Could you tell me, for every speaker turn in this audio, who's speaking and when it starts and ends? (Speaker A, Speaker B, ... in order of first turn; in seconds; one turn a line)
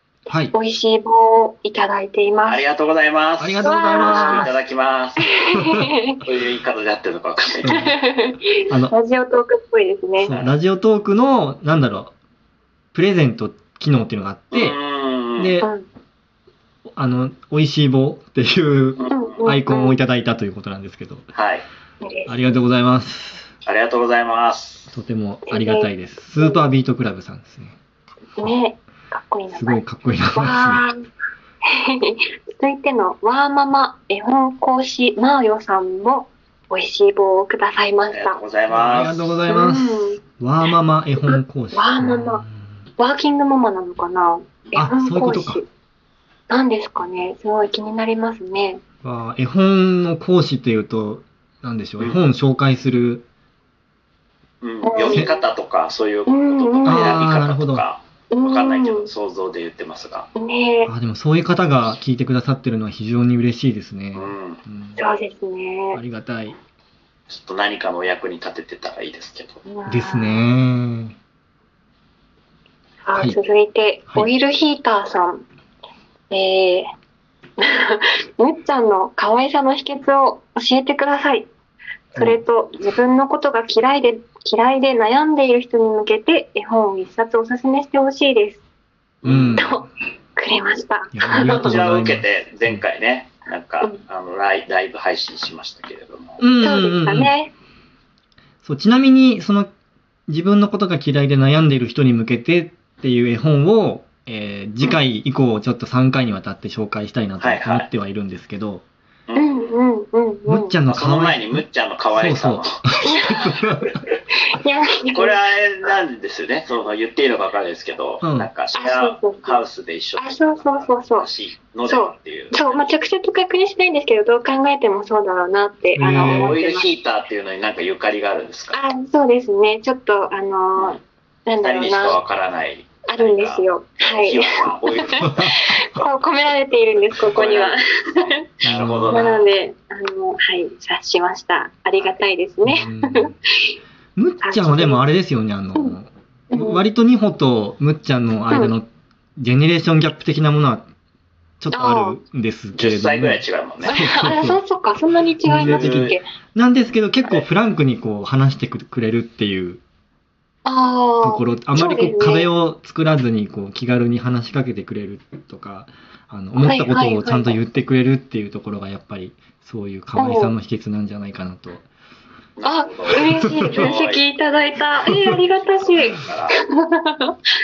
Speaker A: 0.3-0.5
Speaker B: 0.5-2.6
Speaker C: 2.5-5.3
Speaker A: 3.4-4.5
Speaker B: 3.6-4.5
Speaker B: 5.2-6.2
Speaker A: 5.5-5.8
Speaker C: 6.2-7.9
Speaker A: 7.6-7.9
Speaker B: 7.7-10.4
Speaker A: 10.2-12.1
Speaker A: 12.9-14.8
Speaker C: 14.5-15.5
Speaker A: 15.4-15.7
Speaker A: 17.0-21.3
Speaker C: 19.0-19.4
Speaker B: 19.1-20.0
Speaker C: 21.3-21.6
Speaker B: 22.0-22.6
Speaker A: 22.3-23.5
Speaker C: 23.6-24.9
Speaker A: 24.9-27.8
Speaker B: 25.5-26.6
Speaker B: 28.4-29.8
Speaker A: 29.5-30.8
Speaker B: 30.3-30.9
Speaker B: 31.9-38.4
Speaker C: 38.1-39.4
Speaker A: 38.7-42.7
Speaker B: 39.5-40.2
Speaker B: 41.2-42.4
Speaker B: 43.0-45.7
Speaker A: 44.8-45.6
Speaker B: 46.5-48.8
Speaker A: 49.0-53.2
Speaker C: 54.6-60.3
Speaker B: 54.8-55.4
Speaker B: 56.3-57.2
Speaker A: 56.9-57.8
Speaker B: 58.3-59.1
Speaker B: 60.4-60.9
Speaker A: 60.8-65.0
Speaker C: 64.1-64.6
Speaker B: 65.0-66.0
Speaker A: 65.9-66.6
Speaker C: 67.3-69.6
Speaker B: 69.7-70.4
Speaker A: 69.8-71.1
Speaker B: 73.0-75.4
Speaker B: 76.3-76.8
Speaker B: 77.6-81.5
Speaker B: 82.1-88.6
Speaker A: 82.2-82.4
Speaker C: 89.2-89.7
Speaker A: 89.2-89.9
Speaker B: 89.5-91.8
Speaker A: 91.1-92.8
Speaker C: 91.4-96.4
Speaker A: 96.4-97.3
Speaker B: 96.6-97.5
Speaker A: 98.6-99.7
Speaker A: 100.3-108.8
Speaker C: 107.4-107.9
Speaker C: 109.3-109.7
Speaker B: 109.3-110.8
Speaker A: 110.5-114.0
Speaker C: 110.9-113.9
Speaker B: 113.0-113.6
Speaker B: 114.5-115.4
Speaker C: 115.1-122.9
Speaker A: 118.2-118.5
Speaker B: 118.7-119.6
Speaker B: 120.2-121.3
Speaker B: 121.8-126.9
Speaker A: 126.0-126.6
Speaker C: 126.1-128.8
Speaker B: 128.7-132.2
Speaker C: 131.6-135.5
Speaker B: 133.1-138.4
Speaker C: 137.2-139.4
Speaker A: 138.6-139.2
Speaker B: 139.1-143.7
Speaker A: 142.6-143.3
Speaker A: 144.2-150.9
Speaker B: 144.4-145.0
Speaker B: 146.5-146.8
Speaker A: 151.6-154.6
Speaker B: 151.7-152.2
Speaker C: 152.7-153.9
Speaker B: 153.8-156.3
Speaker A: 155.4-159.8
Speaker C: 155.6-156.2
Speaker B: 160.7-162.5
Speaker A: 161.2-171.8
Speaker B: 166.6-167.6
Speaker B: 170.2-170.5
Speaker C: 172.6-174.2
Speaker B: 172.6-176.2
Speaker A: 173.6-173.9
Speaker C: 175.6-176.6
Speaker B: 176.8-177.3